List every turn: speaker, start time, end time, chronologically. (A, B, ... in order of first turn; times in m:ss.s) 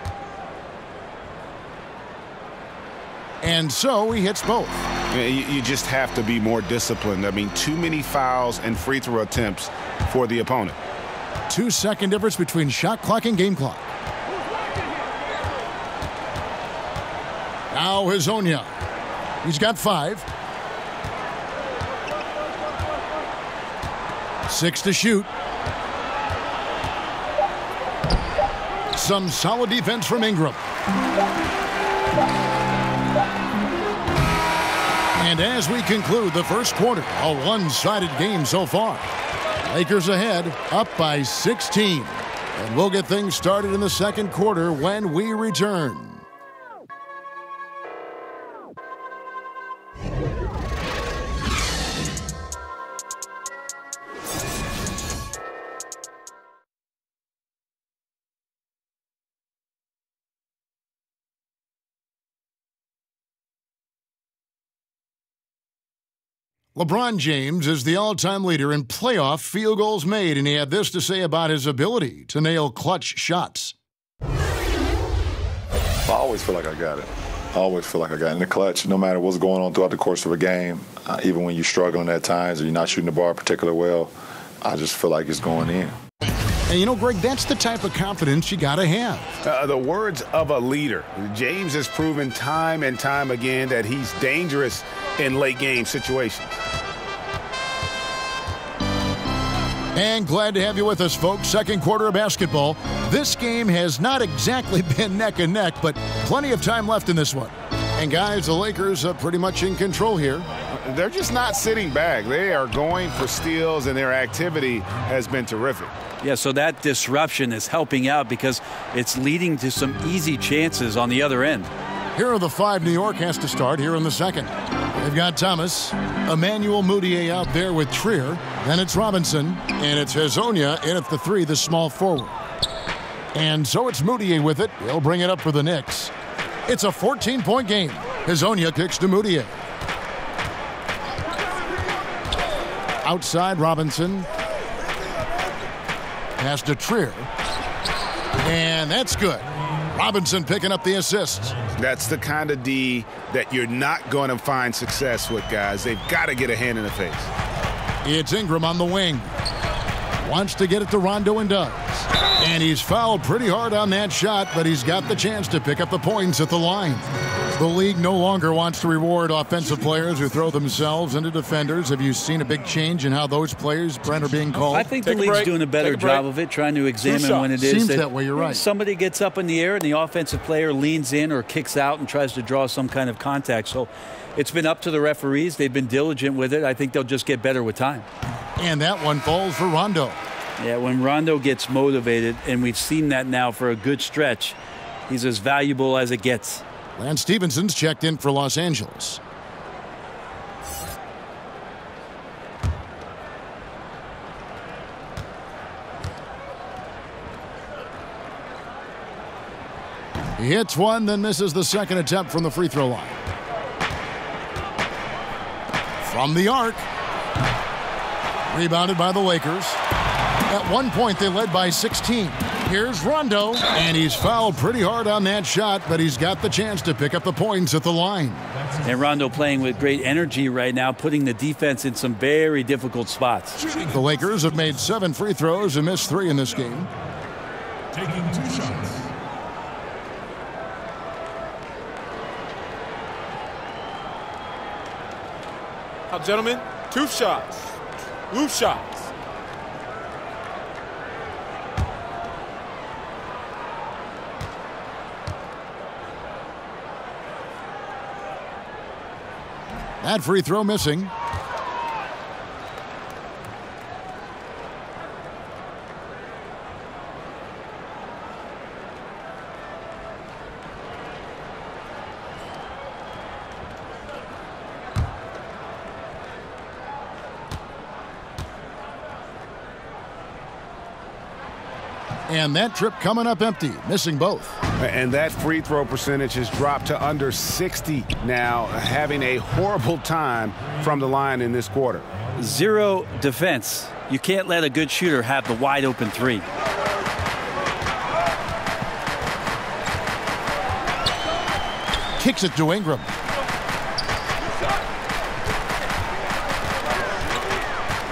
0:03.4-0:04.9 A
0:05.1-0:10.8 B
0:11.5-0:13.8 A
0:17.7-0:18.7 A
0:19.4-0:20.3 A
0:24.5-0:25.3 A
0:28.9-0:30.6 A
0:35.2-0:39.1 A
0:39.6-0:46.2 A
1:06.8-1:13.8 A
1:16.1-1:25.9 C
1:26.7-1:29.3 A
1:29.4-1:36.5 B
1:39.9-1:50.5 A
1:50.7-1:55.9 B
1:56.2-2:01.7 D
2:02.2-2:12.3 A
2:13.3-2:16.1 A
2:16.7-2:19.5 A
2:23.0-2:24.3 A
2:26.4-2:27.3 A
2:28.4-2:31.6 A
2:31.8-2:37.3 B
2:38.0-2:39.3 A
2:40.2-2:54.9 A
2:54.7-3:08.1 D
2:55.0-2:56.3 E
2:57.0-2:57.5 E
2:57.5-2:58.6 A
3:08.6-3:10.2 A
3:10.6-3:14.6 D
3:15.1-3:16.6 D
3:17.0-3:19.2 A
3:30.4-3:33.2 A
3:36.0-3:36.9 A
3:38.5-3:39.8 A
3:40.5-3:48.5 A
3:48.8-3:53.6 D
3:53.8-3:56.9 A
4:06.1-4:07.8 E
4:08.3-4:09.1 E
4:20.0-4:21.1 A
4:42.3-4:44.6 A
4:44.8-4:52.1 B
4:52.4-4:56.5 D
5:02.2-5:03.1 A